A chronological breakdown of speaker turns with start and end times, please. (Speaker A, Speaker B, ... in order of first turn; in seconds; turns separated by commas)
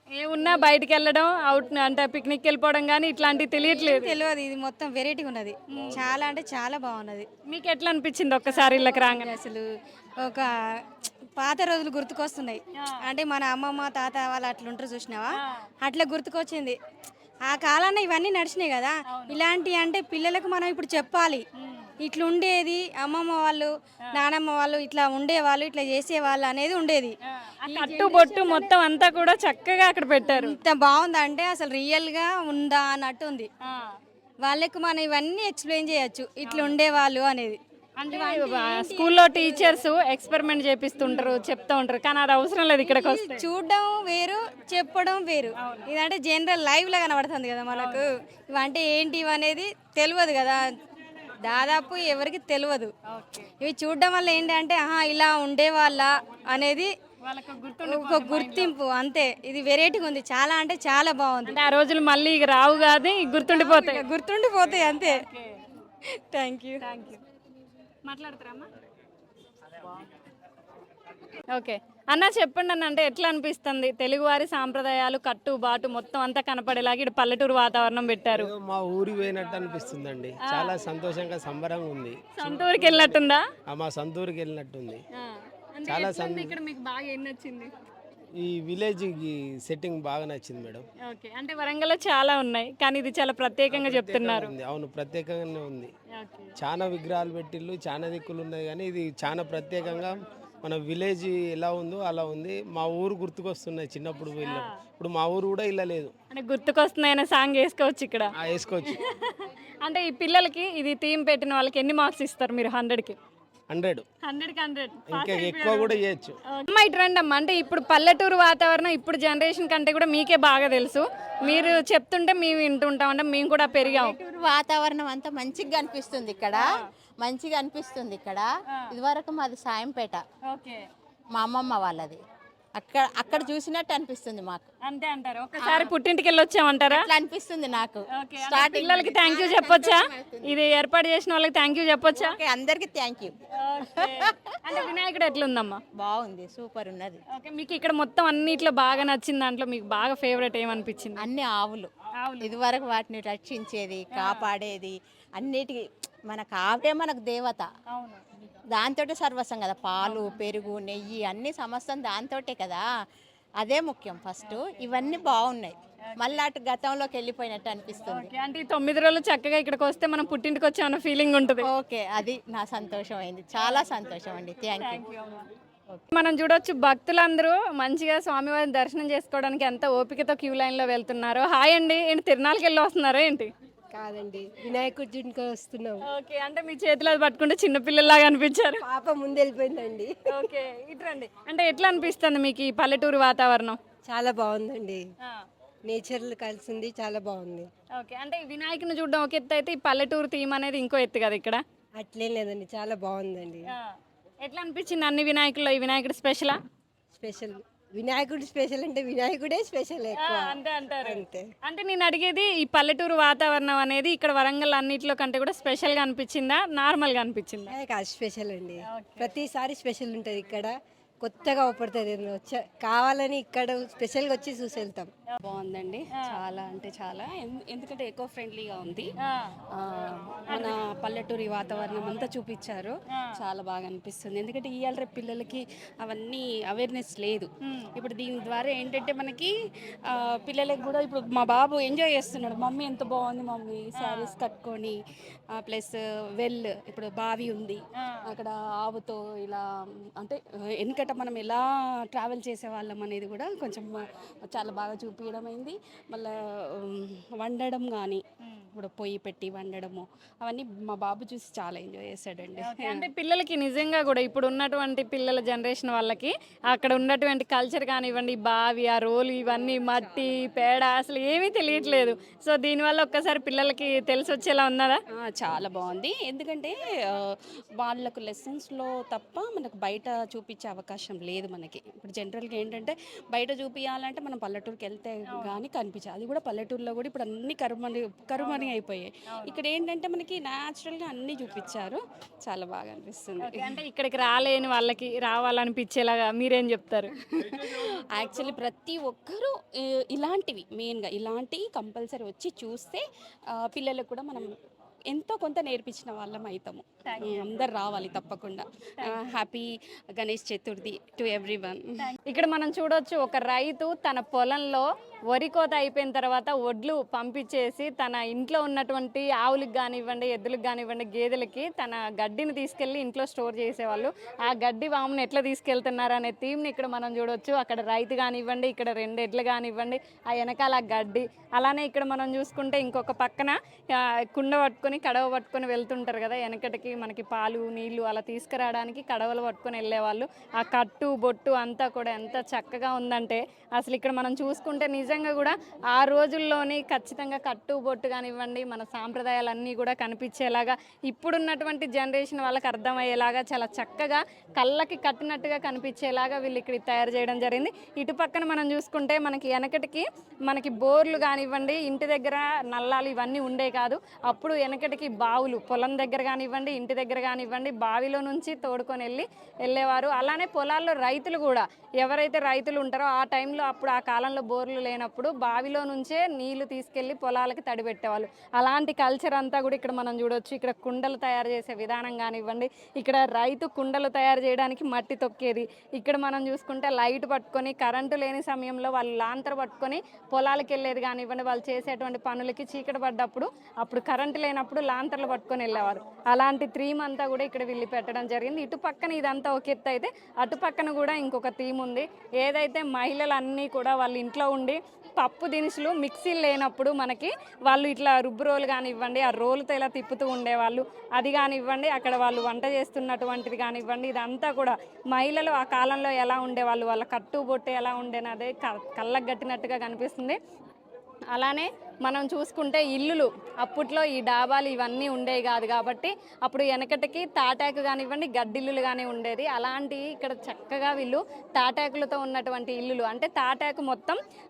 Speaker A: 0.1-4.2, Speaker B: 3.7-7.3, Speaker A: 7.5-9.3, Speaker B: 8.5-9.7, Speaker B: 10.2-10.8, Speaker B: 11.4-16.8, Speaker A: 15.3-15.7, Speaker B: 17.4-21.4, Speaker A: 19.1-19.4, Speaker A: 21.6-21.9, Speaker B: 22.0-28.7, Speaker A: 27.5-30.6, Speaker B: 30.3-33.5, Speaker A: 33.6-34.0, Speaker B: 34.4-37.6, Speaker A: 36.4-36.8, Speaker A: 38.0-43.4, Speaker B: 38.1-39.6, Speaker B: 42.8-50.6, Speaker A: 45.6-45.9, Speaker A: 47.7-48.0, Speaker B: 51.4-52.9, Speaker A: 53.1-53.5, Speaker B: 53.6-56.9, Speaker A: 57.2-58.7, Speaker B: 57.8-61.5, Speaker A: 61.4-64.0, Speaker B: 63.5-65.2, Speaker A: 65.0-65.6, Speaker B: 66.3-66.8, Speaker A: 66.8-67.2, Speaker A: 68.0-68.7, Speaker A: 71.5-78.5, Speaker C: 78.3-83.1, Speaker A: 80.5-80.8, Speaker A: 82.4-83.4, Speaker C: 83.7-85.0, Speaker A: 85.2-87.7, Speaker C: 85.8-86.5, Speaker C: 88.4-90.8, Speaker A: 91.0-94.5, Speaker C: 93.7-95.9, Speaker A: 96.1-96.5, Speaker C: 96.6-106.1, Speaker A: 104.4-104.8, Speaker A: 106.3-108.3, Speaker C: 108.4-109.0, Speaker A: 108.9-113.2, Speaker C: 113.7-114.0, Speaker A: 114.2-124.2, Speaker C: 115.1-116.4, Speaker D: 123.9-126.6, Speaker A: 126.5-126.9, Speaker D: 127.2-130.2, Speaker A: 130.5-130.9, Speaker D: 131.3-132.2, Speaker D: 132.8-134.7, Speaker A: 134.8-137.1, Speaker D: 135.6-135.9, Speaker D: 136.9-140.6, Speaker A: 138.1-142.3, Speaker D: 142.1-144.8, Speaker A: 143.6-145.8, Speaker D: 146.0-147.2, Speaker A: 147.3-151.2, Speaker D: 151.2-157.7, Speaker A: 152.2-152.5, Speaker A: 154.1-154.5, Speaker A: 157.9-158.2, Speaker D: 158.7-162.8, Speaker A: 160.0-160.3, Speaker D: 163.6-168.3, Speaker A: 164.4-164.9, Speaker A: 168.1-171.7, Speaker D: 171.7-175.0, Speaker A: 174.8-175.5, Speaker A: 176.1-183.5, Speaker E: 183.9-186.0, Speaker A: 186.1-188.8, Speaker E: 188.8-190.2, Speaker A: 190.3-193.8, Speaker E: 194.1-195.0, Speaker E: 195.9-197.7, Speaker A: 198.0-201.6, Speaker E: 202.0-203.7, Speaker A: 204.4-206.6, Speaker E: 207.2-211.4, Speaker A: 210.2-217.7, Speaker E: 217.7-225.1, Speaker A: 218.9-219.3, Speaker F: 225.4-229.1, Speaker A: 226.1-226.4, Speaker A: 229.2-229.5, Speaker F: 229.7-239.5, Speaker A: 230.5-230.8, Speaker A: 237.6-237.9, Speaker F: 240.1-244.9, Speaker A: 243.9-244.3, Speaker F: 245.6-249.6, Speaker A: 248.0-248.3, Speaker F: 250.2-258.2, Speaker A: 258.4-258.7, Speaker F: 258.7-263.1, Speaker A: 262.6-275.0, Speaker F: 275.1-293.8, Speaker A: 285.3-285.6, Speaker A: 288.4-288.7, Speaker A: 289.3-289.6, Speaker A: 293.4-297.1, Speaker F: 297.6-299.5, Speaker F: 300.1-303.0, Speaker F: 303.6-304.5, Speaker F: 305.1-309.6, Speaker A: 307.0-307.4, Speaker F: 310.1-312.1, Speaker A: 312.0-420.4, Speaker A: 421.3-434.2